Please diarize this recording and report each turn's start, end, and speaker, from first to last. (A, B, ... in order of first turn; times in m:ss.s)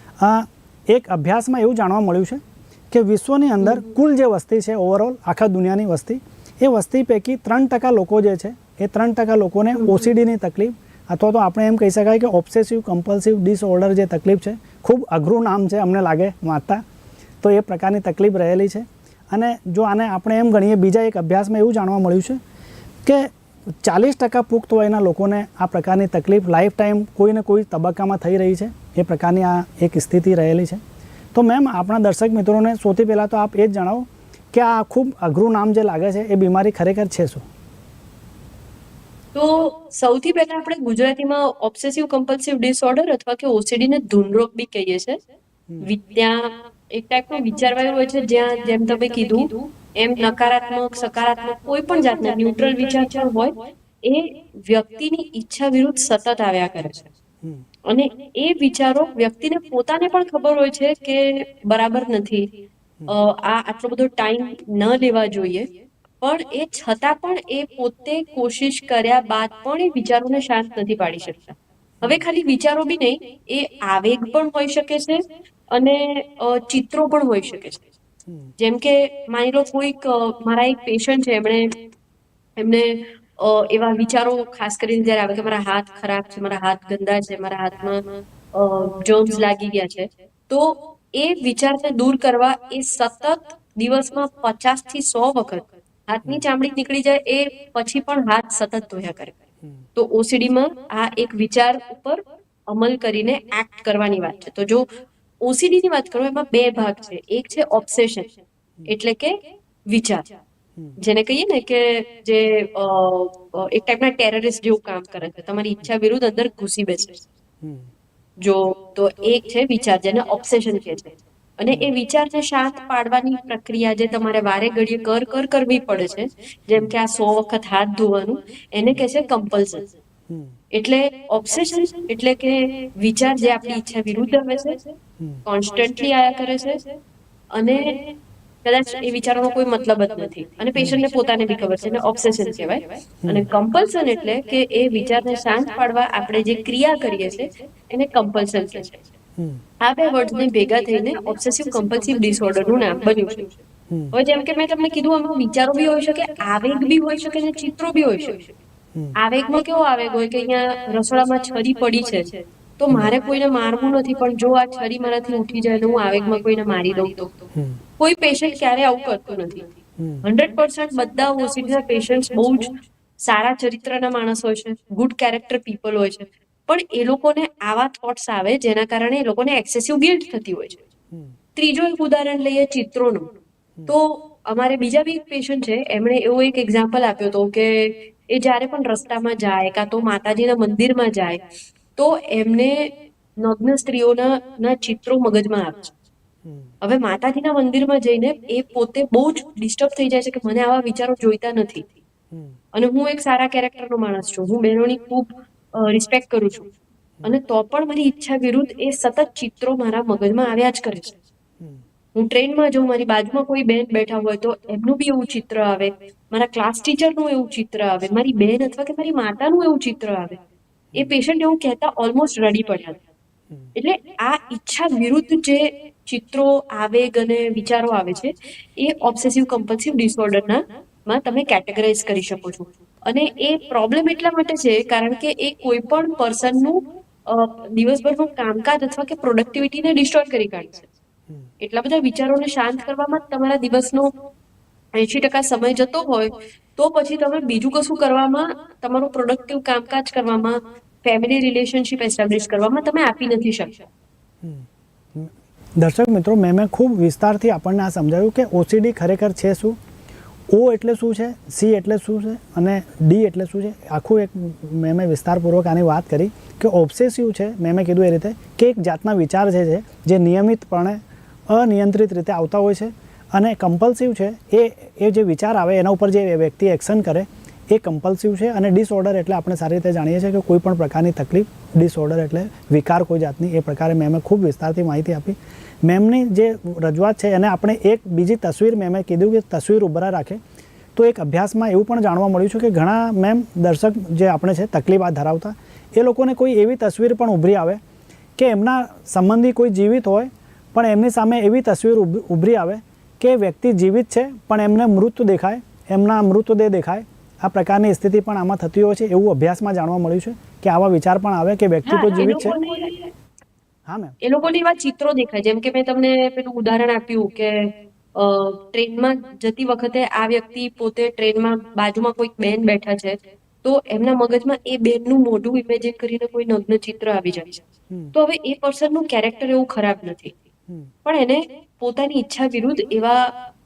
0:00.2-0:16.8 A
0:09.8-0:10.1 B
0:17.4-0:22.4 A
0:23.0-0:30.8 A
0:31.3-0:37.5 A
0:39.3-0:45.2 B
0:45.8-0:57.1 B
0:57.8-1:02.5 B
1:03.1-1:05.7 B
1:06.2-1:17.9 B
1:12.0-1:12.2 A
1:18.3-1:18.5 A
1:18.6-1:21.7 B
1:22.6-1:39.4 B
1:39.9-1:44.8 B
1:45.4-1:48.3 B
1:48.8-1:49.3 B
1:49.9-1:50.3 B
1:51.0-1:57.2 B
1:57.6-1:57.9 A
1:58.4-2:09.9 B
2:10.3-2:10.6 A
2:10.7-2:14.9 B
2:15.4-2:16.8 B
2:17.5-2:18.1 B
2:18.6-2:29.0 B
2:23.2-2:23.5 A
2:29.4-2:29.6 A
2:29.8-2:33.6 B
2:33.9-2:34.1 A
2:34.1-2:38.6 B
2:39.2-2:47.4 B
2:47.5-2:47.8 A
2:48.0-2:49.7 B
2:50.0-2:50.2 A
2:50.2-3:00.8 B
3:01.1-3:01.4 A
3:01.5-3:03.3 B
3:03.9-3:11.4 B
3:12.0-3:15.9 B
3:16.4-3:16.7 A
3:16.8-3:21.9 B
3:22.3-3:22.6 A
3:22.7-3:26.7 B
3:27.2-3:31.2 B
3:32.1-3:40.4 B
3:40.9-3:43.0 B
3:43.7-4:00.9 B
4:01.6-4:04.1 B
4:04.9-4:13.8 B
4:14.4-4:19.8 A
4:20.5-4:50.4 A
4:51.0-4:57.8 A
4:58.4-5:12.6 A
5:11.8-5:13.1 B
5:13.8-5:14.2 A
5:14.2-5:30.4 B
5:31.0-5:33.4 B